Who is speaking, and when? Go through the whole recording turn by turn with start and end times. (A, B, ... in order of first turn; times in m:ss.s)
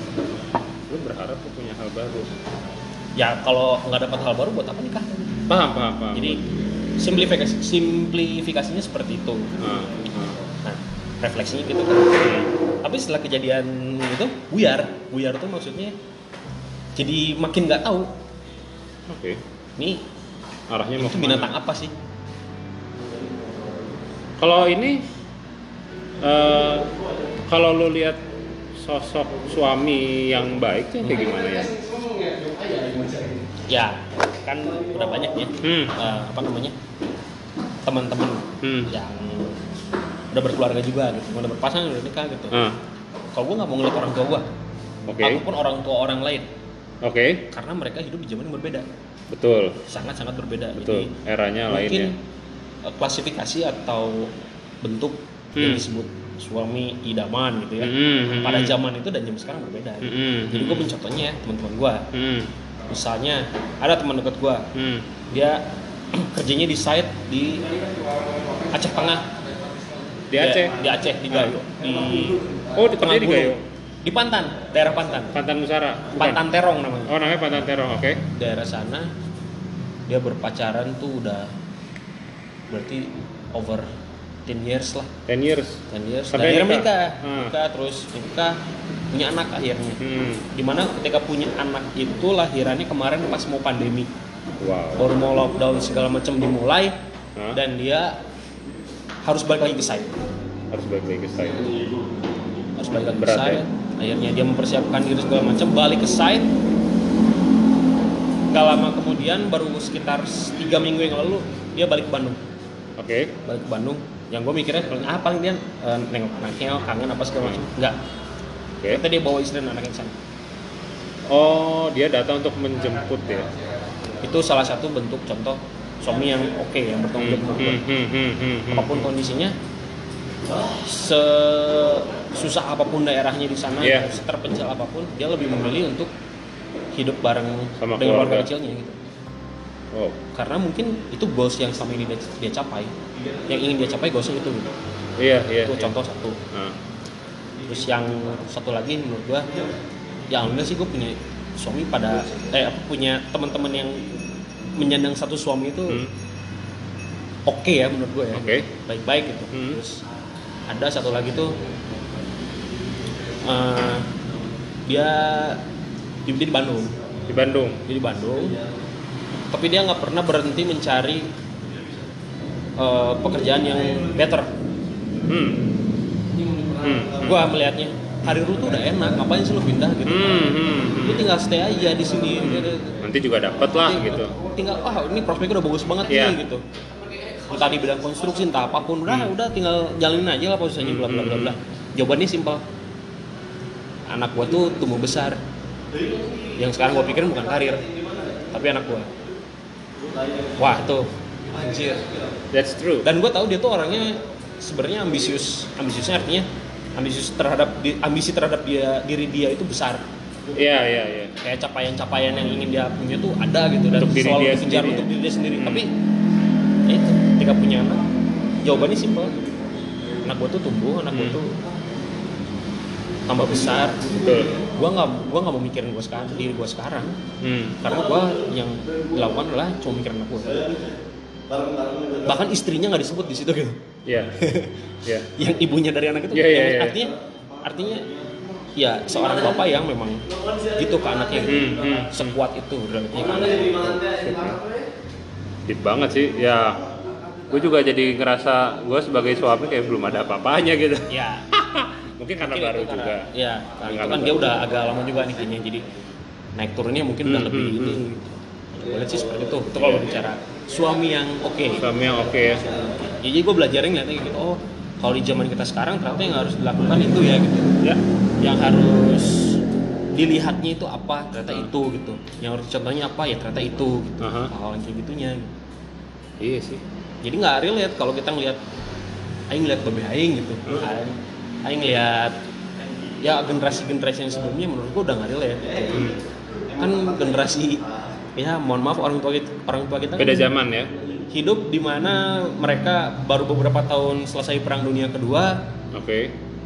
0:00.9-0:02.3 A
0:03.2-0:05.4 B
0:05.5-0:06.4 A
0:06.1-0:06.4 B
0:07.0-0:09.6 B
0:09.6-0:10.4 A
0:10.6-0:15.9 B
0:12.2-0:12.5 A
0:17.0-0:18.1 B
0:19.1-0:19.4 A
0:19.8-0:20.0 B
0:20.7-0:21.5 A
0:21.0-0:21.9 B
0:24.4-0:25.0 A
0:26.2-0:26.9 A
0:27.5-0:28.2 A
0:28.7-0:31.9 A
0:31.0-0:31.3 B
0:33.7-0:36.8 B
0:35.6-0:36.0 A
0:37.8-0:39.6 B
0:38.6-0:38.9 A
0:40.3-0:42.7 B
0:42.5-0:42.8 A
0:43.3-0:44.5 B
0:45.1-0:45.4 A
0:45.2-0:46.5 B
0:47.0-0:47.5 A
0:47.5-0:48.8 B
0:49.3-0:49.8 A
0:49.9-0:51.1 B
0:50.7-0:52.1 A
0:51.7-0:52.2 B
0:52.8-1:02.1 B
0:55.6-0:55.8 A
0:57.8-0:58.8 A
1:00.0-1:00.9 A
1:02.1-1:02.5 A
1:02.9-1:04.7 B
1:04.7-1:05.1 A
1:05.3-1:07.7 B
1:08.7-1:09.3 B
1:10.3-1:13.6 A
1:10.4-1:12.3 B
1:12.9-1:15.4 B
1:15.3-1:16.4 A
1:16.2-1:17.2 B
1:17.1-1:18.2 A
1:18.3-1:19.1 B
1:20.1-1:21.5 B
1:22.7-1:23.9 B
1:24.5-1:25.1 B
1:25.3-1:27.5 A
1:25.9-1:28.6 B
1:29.1-1:30.0 B
1:30.0-1:30.5 A
1:30.5-1:34.1 B
1:34.6-1:35.1 A
1:35.0-1:37.0 B
1:37.5-1:38.2 B
1:39.2-1:40.2 B
1:40.7-1:41.8 A
1:42.8-1:46.5 B
1:43.1-1:43.6 A
1:48.5-1:52.4 B
1:53.0-1:53.3 A
1:53.4-1:58.0 B
1:58.9-2:00.2 B
2:01.3-2:03.5 A
2:04.2-2:07.8 B
2:07.2-2:09.1 A
2:08.7-2:09.5 B
2:10.6-2:16.1 B
2:13.8-2:14.2 A
2:16.9-2:19.0 B
2:17.8-2:18.5 A
2:19.9-2:20.2 A
2:20.3-2:22.9 B
2:23.4-2:24.7 B
2:25.2-2:26.0 A
2:25.6-2:26.4 B
2:26.5-2:26.8 A
2:27.6-2:29.6 B
2:30.3-2:34.1 B
2:34.8-2:36.0 B
2:35.9-2:36.1 A
2:37.4-2:40.0 B
2:38.3-2:38.7 A
2:39.5-2:39.8 A
2:40.7-2:41.6 B
2:43.3-2:44.1 B
2:44.8-2:45.6 B
2:46.2-2:47.0 B
2:47.3-2:47.8 A
2:47.8-2:48.6 B
2:49.5-2:51.3 B
2:52.8-2:54.5 B
2:55.2-2:55.6 A
2:56.8-2:57.5 A
2:57.2-3:03.0 B
3:00.0-3:01.3 A
3:02.4-3:04.3 A
3:03.7-3:06.6 B
3:06.1-3:06.4 A
3:07.4-3:12.6 B
3:09.1-3:09.3 A
3:10.8-3:11.6 A
3:14.1-3:15.4 B
3:16.3-3:19.1 B
3:20.5-3:22.2 B
3:22.5-3:23.1 A
3:23.0-3:30.0 B
3:30.5-3:31.4 A
3:31.4-3:35.9 B
3:33.9-3:35.9 A
3:36.9-3:38.0 B
3:38.6-3:39.4 B
3:40.2-3:41.5 B
3:41.1-3:41.4 A
3:43.3-3:47.2 B
3:44.1-3:44.6 A
3:47.4-3:47.8 A
3:47.8-3:50.9 B
3:52.2-3:53.8 B
3:54.0-3:54.4 A
3:54.4-3:58.1 B
3:55.0-3:55.4 A
3:56.3-3:57.0 A
3:58.7-4:04.4 B
4:01.4-4:02.4 A
4:04.1-4:04.6 A
4:05.6-4:06.8 A
4:07.5-4:13.3 A
4:11.1-4:11.5 B
4:12.4-4:15.9 B
4:13.8-4:14.6 A
4:16.6-4:18.2 B
4:17.2-4:18.1 A
4:18.7-4:22.0 B
4:19.7-4:20.1 A
4:21.7-4:22.7 A
4:22.6-4:27.8 B
4:28.4-4:29.6 B
4:30.1-4:35.5 B
4:31.5-4:31.7 A
4:34.2-4:34.5 A
4:36.4-4:36.8 A
4:37.2-4:38.6 B
4:39.5-4:42.4 B
4:43.2-4:46.1 B
4:45.9-4:46.2 A
4:46.7-4:47.8 B
4:48.3-4:50.5 B
4:50.2-4:50.9 A
4:51.3-4:55.6 B
4:55.9-4:56.4 A